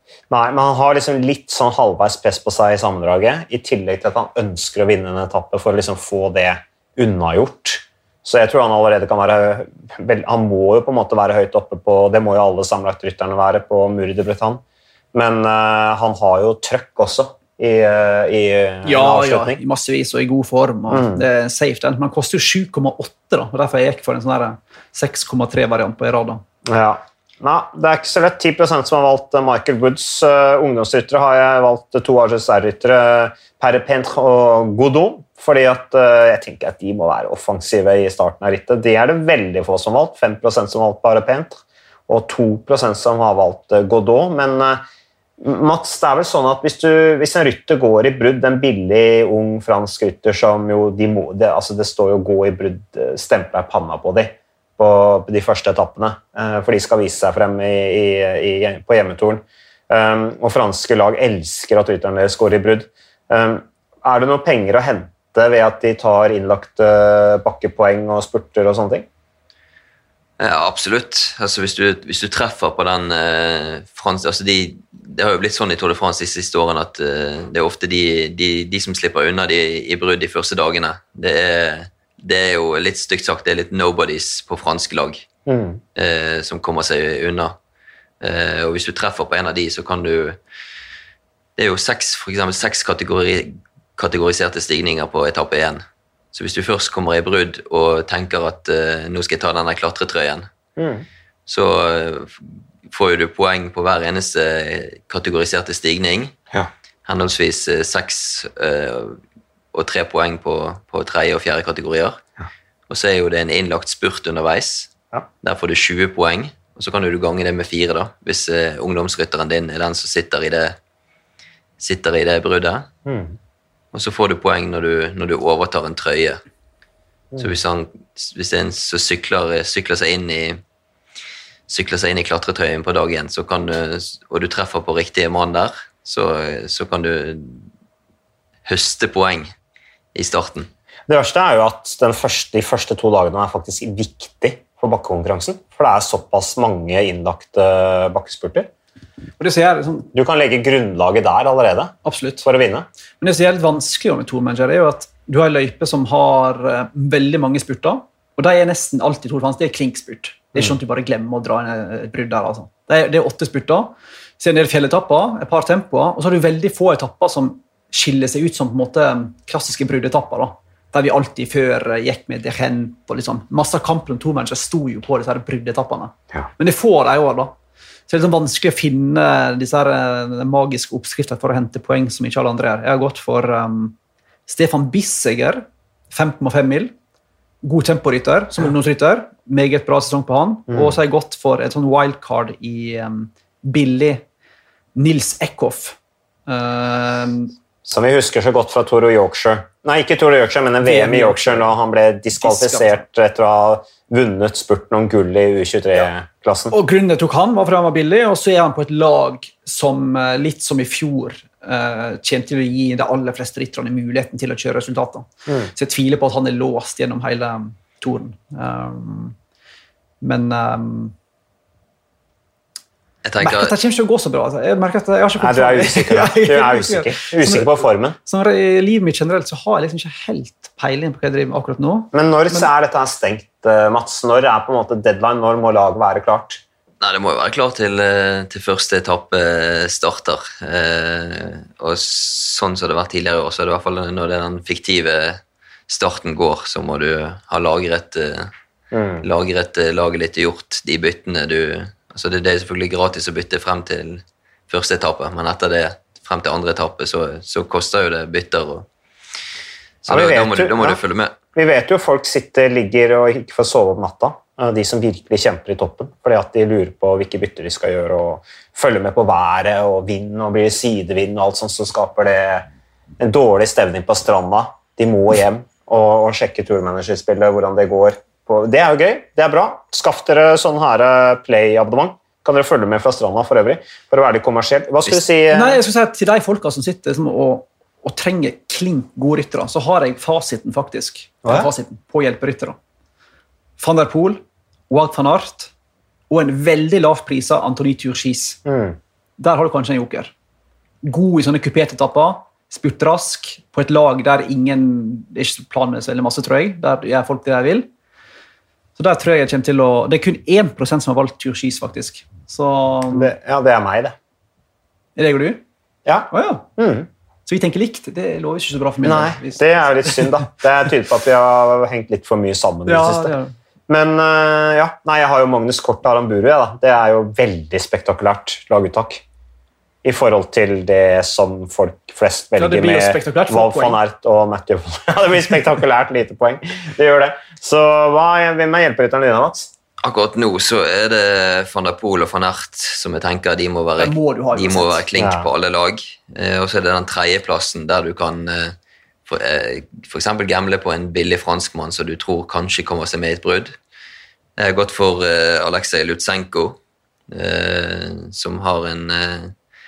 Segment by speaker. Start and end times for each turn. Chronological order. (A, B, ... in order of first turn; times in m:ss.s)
0:00.3-0:14.6 A
0:15.1-0:19.6 A
0:18.8-0:26.4 B
0:20.9-0:21.2 A
0:26.6-0:44.8 A
0:45.4-1:09.1 A
1:10.4-1:25.3 C
1:25.5-1:25.8 A
1:26.0-1:27.6 C
1:28.2-1:30.4 C
1:31.6-1:35.8 C
1:36.3-1:40.5 C
1:40.8-1:41.0 A
1:41.5-1:46.4 C
1:47.1-1:49.2 C
1:49.7-1:52.2 C
1:52.9-1:54.9 C
1:55.4-2:00.8 C
2:01.8-2:02.9 C
2:03.1-2:03.4 A
2:03.9-2:06.4 C
2:07.4-2:10.6 C
2:11.7-2:17.7 C
2:18.7-2:19.5 C
2:20.2-2:20.7 C
2:21.1-2:28.7 A
2:29.4-2:30.1 B
2:30.1-2:32.9 A
2:32.0-2:32.5 B
2:33.2-2:57.6 B
2:58.1-3:04.0 B
3:04.5-3:06.9 B
3:07.6-3:14.2 B
3:10.7-3:10.9 A
3:15.0-3:17.5 B
3:17.8-3:26.8 A
3:20.8-3:21.7 B
3:22.4-3:23.0 B
3:26.7-3:39.4 B
3:40.2-3:41.1 B
3:43.2-3:43.7 C
3:43.4-3:52.7 B
3:45.4-3:48.2 A
3:52.1-3:56.6 A
3:57.0-4:08.5 C
4:08.9-4:09.3 A
4:09.2-4:18.9 C
4:20.0-4:21.4 C
4:20.1-4:21.0 A
4:21.6-4:32.7 A
4:33.2-4:45.8 A
4:45.5-4:52.8 B
4:53.8-4:55.7 B
4:56.3-4:58.6 B
4:58.7-4:59.0 A
4:59.4-5:00.3 B
5:01.0-5:07.9 B
5:09.0-5:13.3 B
5:13.1-5:14.2 A
5:15.2-5:15.6 B
5:16.1-5:17.1 A
5:16.3-5:16.7 B
5:17.5-5:20.5 B
5:19.0-5:23.4 A
5:22.9-5:23.5 B
5:23.9-5:29.2 A
5:30.0-5:39.7 A
5:32.6-5:34.0 B
5:40.0-5:48.8 C
5:44.0-5:45.0 B
5:45.2-5:45.5 A
5:49.3-5:53.8 C
5:54.6-5:56.8 C
5:57.3-5:59.5 C